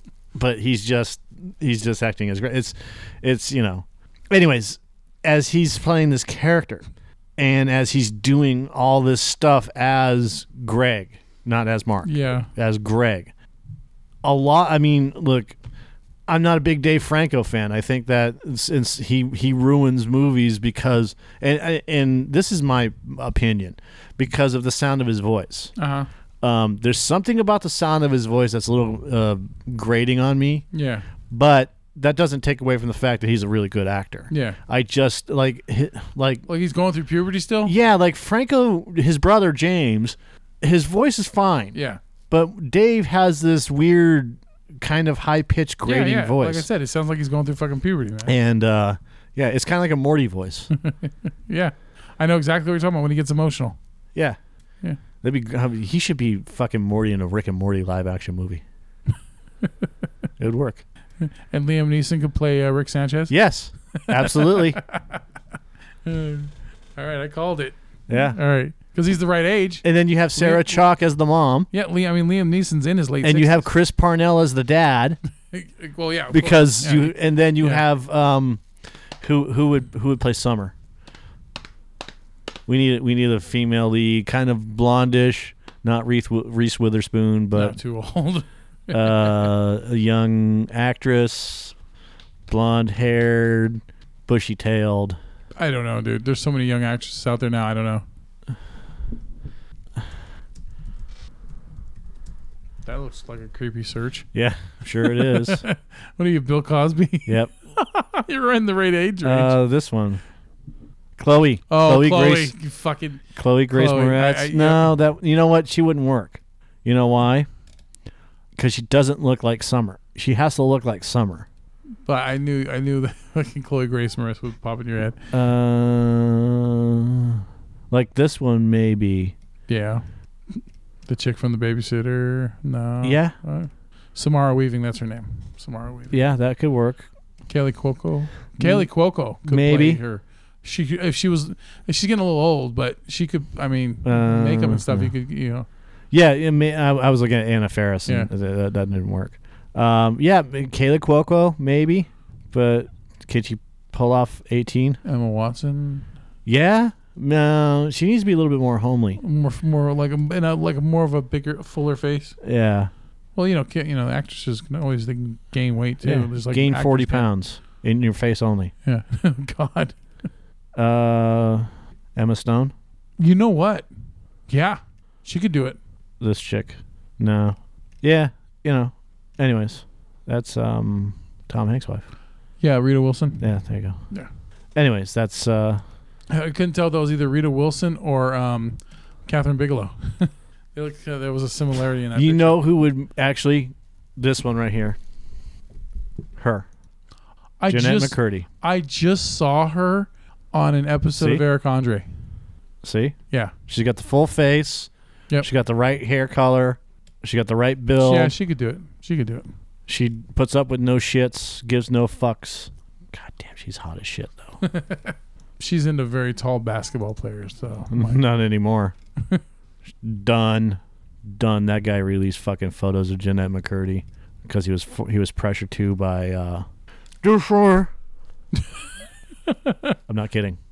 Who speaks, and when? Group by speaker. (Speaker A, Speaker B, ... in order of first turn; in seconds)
Speaker A: 0.3-6.8, 7.4-13.3, 14.2-15.6, 16.3-25.7, 26.4-30.6, 31.3-36.4, 37.6-41.8, 42.3-46.6, 48.2-50.7, 55.2-58.6, 60.4-60.8, 63.3-64.8, 68.1-68.4, 69.8-71.7, 73.2-75.2, 76.3-78.6, 79.2-80.7, 82.7-87.8, 88.9-91.7, 92.5-95.2, 104.3-105.6, 107.2-107.5, 109.2-110.2, 111.2-112.5, 113.3-117.5, 118.5-121.5, 125.3-129.3, 133.0-133.3, 136.1-137.1, 138.6-140.0, 144.0-145.1, 146.1-155.0, 156.4-159.2, 162.4-162.9, 166.0-168.7, 170.8-172.7, 176.2-182.1, 183.4-184.0, 184.7-185.8, 192.2-195.0, 196.4-196.7, 197.7-198.5, 201.2-201.4, 202.8-203.2, 203.7-204.9, 205.4-208.3, 209.9-214.6, 217.9-218.9, 220.0-226.7, 227.2-227.9, 230.1-230.6
Speaker B: 12.0-12.5, 25.8-26.1, 30.7-31.1, 34.3-34.6, 36.5-37.7, 41.7-42.0, 45.8-48.3, 50.7-53.8, 61.2-63.3, 64.0-65.2, 66.0-70.8, 71.7-73.7, 75.5-77.8, 87.5-89.3, 95.6-98.0, 102.8-104.3, 105.0-109.5, 111.7-114.9, 122.0-125.2, 129.7-130.0, 130.6-136.2, 137.5-145.7, 155.0-156.1, 159.2-162.4, 163.3-167.3, 168.8-170.0, 173.2-173.9, 174.5-175.8, 182.6-183.4, 186.3-192.6, 197.6-202.1, 208.0-209.5, 214.6-218.2, 229.5-229.9